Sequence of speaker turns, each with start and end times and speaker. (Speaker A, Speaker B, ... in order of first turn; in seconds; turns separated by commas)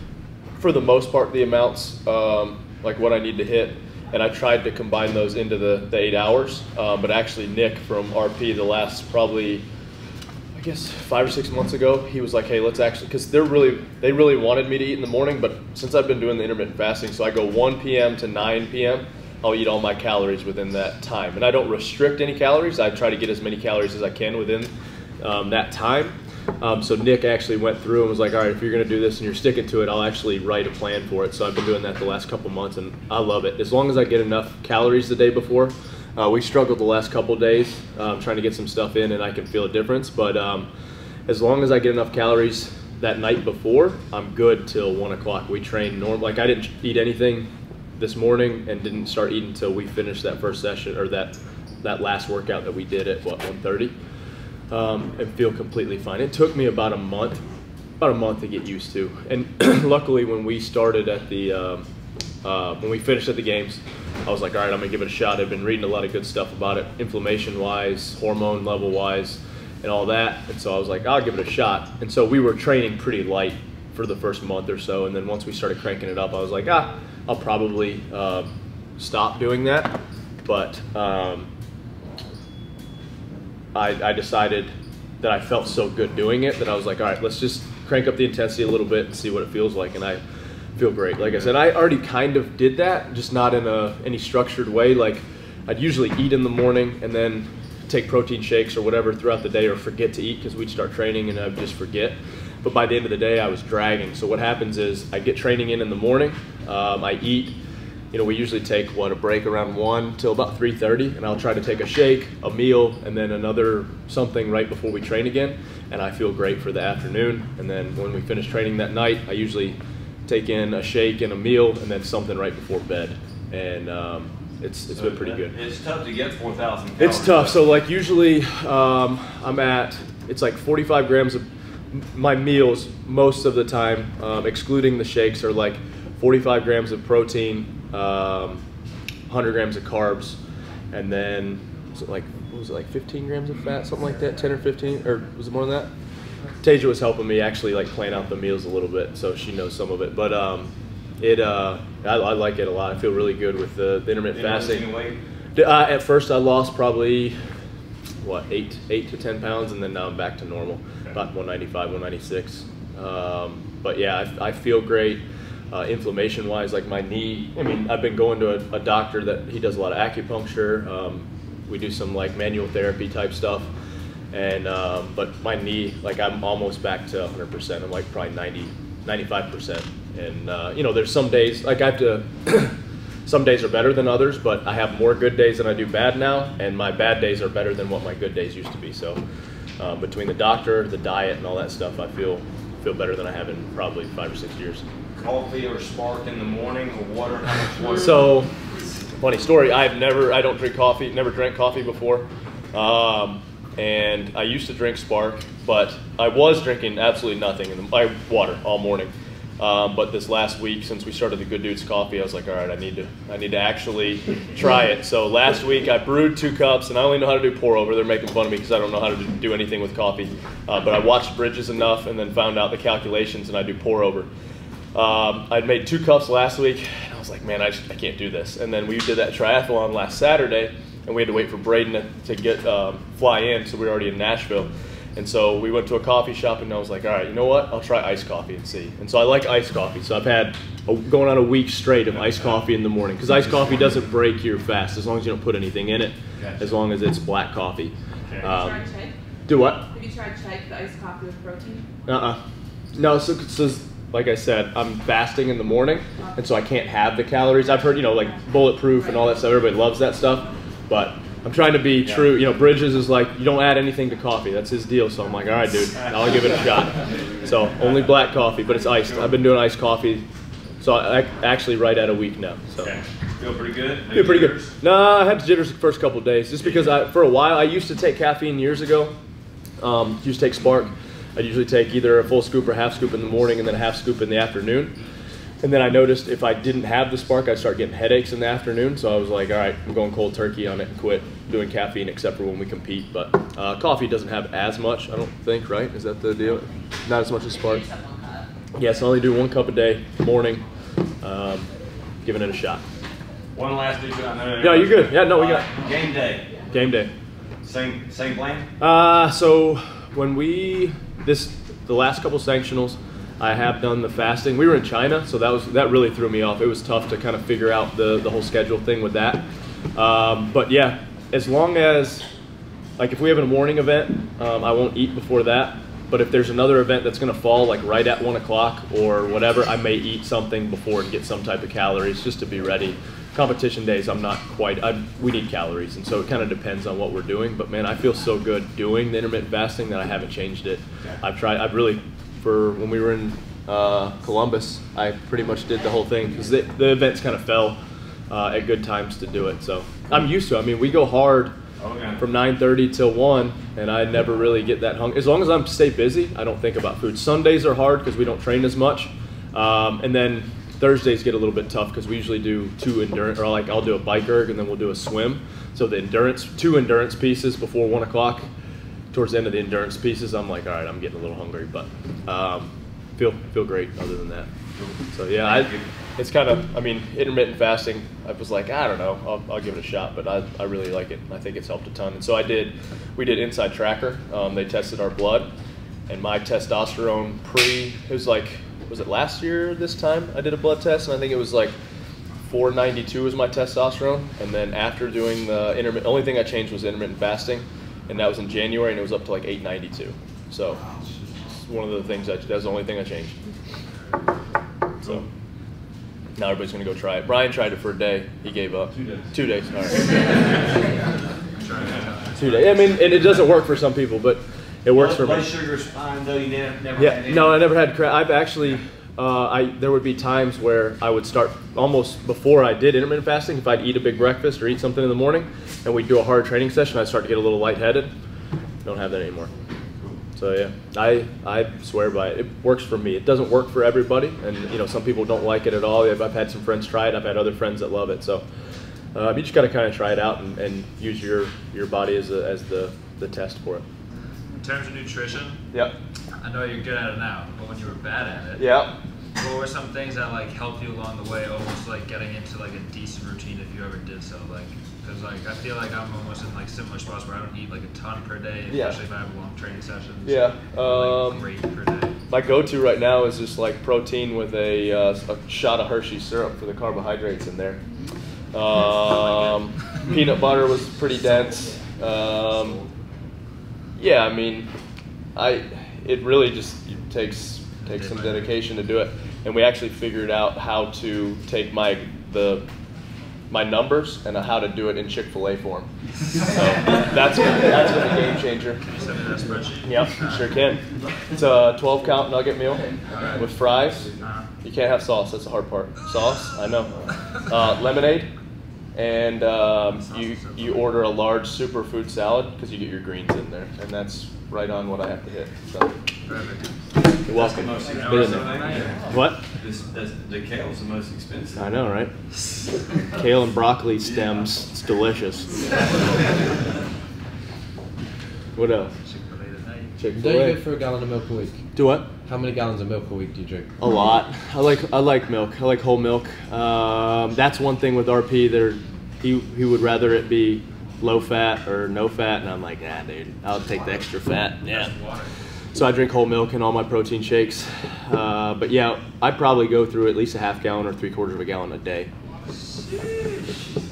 Speaker A: 0.6-9.7, Speaker A: 10.5-40.7, Speaker A: 41.3-53.9, Speaker A: 54.7-57.4, Speaker A: 58.0-61.9, Speaker A: 62.4-81.5, Speaker A: 83.7-90.2, Speaker A: 90.8-107.5, Speaker A: 108.1-125.6, Speaker B: 124.9-127.7, Speaker A: 127.0-138.6, Speaker A: 139.3-140.4, Speaker A: 140.9-145.9, Speaker A: 146.6-154.9, Speaker B: 154.3-155.2, Speaker A: 155.6-157.4, Speaker A: 158.2-173.7, Speaker A: 174.3-189.2, Speaker A: 189.8-194.8, Speaker B: 195.2-198.3, Speaker A: 198.0-198.5, Speaker A: 199.2-224.3, Speaker A: 224.9-248.8, Speaker B: 246.4-246.7, Speaker C: 248.5-249.1, Speaker A: 249.5-249.9, Speaker C: 249.9-251.9, Speaker A: 252.1-252.4, Speaker A: 252.9-270.2, Speaker B: 262.0-262.4, Speaker B: 269.1-269.3, Speaker A: 270.8-272.9, Speaker B: 272.8-274.8, Speaker A: 274.1-279.1, Speaker B: 276.6-276.9, Speaker A: 279.8-285.0, Speaker A: 285.6-297.8, Speaker C: 297.5-298.5, Speaker A: 298.8-300.6, Speaker A: 301.2-301.7, Speaker A: 302.2-302.8, Speaker B: 303.5-306.5, Speaker A: 304.6-305.7, Speaker A: 306.7-307.1, Speaker B: 307.6-308.7, Speaker A: 308.8-322.3, Speaker A: 323.0-347.8, Speaker A: 348.3-351.5, Speaker B: 351.8-352.2, Speaker A: 352.2-368.5, Speaker A: 369.1-374.5, Speaker B: 374.8-375.9, Speaker A: 375.1-385.5, Speaker A: 386.1-391.8, Speaker A: 392.5-400.8, Speaker A: 401.6-403.4, Speaker A: 406.4-410.4, Speaker D: 411.6-413.5, Speaker A: 412.4-415.5, Speaker B: 414.9-417.6, Speaker A: 417.0-428.1, Speaker A: 428.9-429.5, Speaker A: 430.4-438.4, Speaker A: 439.1-443.9, Speaker D: 444.5-445.6, Speaker D: 446.4-448.6, Speaker A: 448.6-448.9, Speaker D: 449.4-462.1, Speaker A: 458.7-459.0, Speaker A: 460.2-461.5, Speaker A: 462.3-467.8, Speaker A: 468.5-472.8, Speaker A: 474.0-474.7, Speaker A: 475.4-482.7, Speaker D: 477.8-478.5, Speaker A: 483.5-485.9, Speaker A: 486.4-488.8, Speaker D: 488.8-490.5, Speaker A: 489.8-498.3, Speaker D: 493.1-493.5, Speaker D: 494.2-494.5, Speaker A: 498.9-505.9, Speaker D: 499.9-500.9, Speaker D: 506.3-506.8, Speaker A: 507.2-509.4, Speaker B: 507.3-511.7, Speaker D: 507.8-509.2, Speaker A: 511.6-512.1, Speaker A: 513.1-515.5, Speaker B: 514.0-514.5, Speaker A: 518.5-518.9, Speaker D: 519.0-520.0, Speaker A: 520.0-520.6, Speaker E: 520.2-521.6, Speaker A: 521.8-522.1, Speaker E: 522.2-523.7, Speaker A: 523.8-534.9, Speaker D: 534.7-535.3, Speaker A: 535.7-542.1, Speaker D: 542.5-543.5